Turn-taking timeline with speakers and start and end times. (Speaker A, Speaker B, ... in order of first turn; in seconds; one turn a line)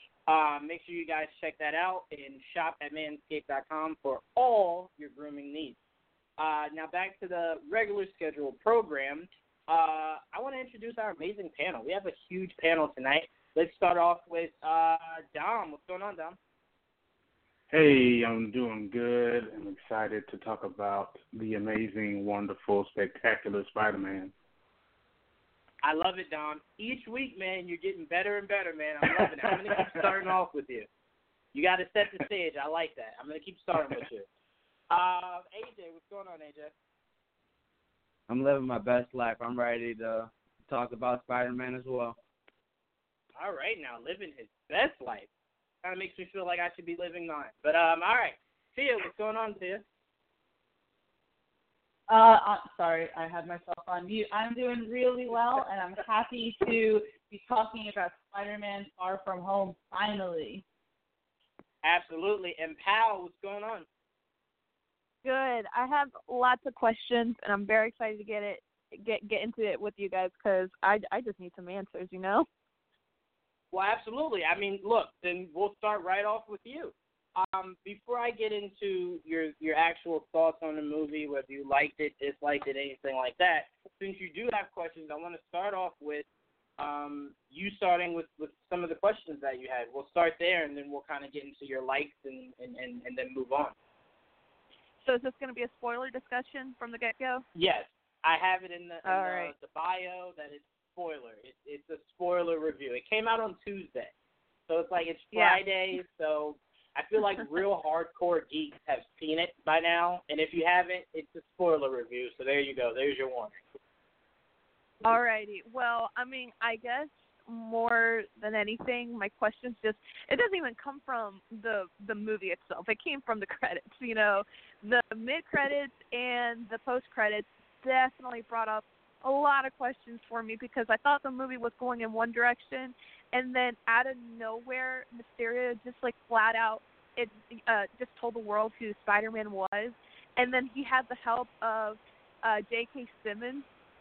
Speaker A: 0.3-5.8
Speaker A: 6.4-16.4
Speaker B: 17.7-24.3
Speaker A: 25.8-30.9
Speaker B: 29.8-30.0
Speaker A: 31.5-34.2
Speaker A: 34.9-36.7
Speaker C: 38.3-42.2
Speaker A: 43.4-45.3
Speaker A: 45.8-49.8
Speaker D: 52.1-60.6
Speaker A: 61.8-63.9
Speaker E: 65.2-72.5
Speaker A: 73.7-86.2
Speaker A: 86.8-93.7
Speaker E: 95.0-97.4
Speaker A: 97.5-104.1
Speaker E: 99.0-99.5
Speaker A: 104.7-113.5
Speaker E: 105.3-105.6
Speaker E: 115.0-143.7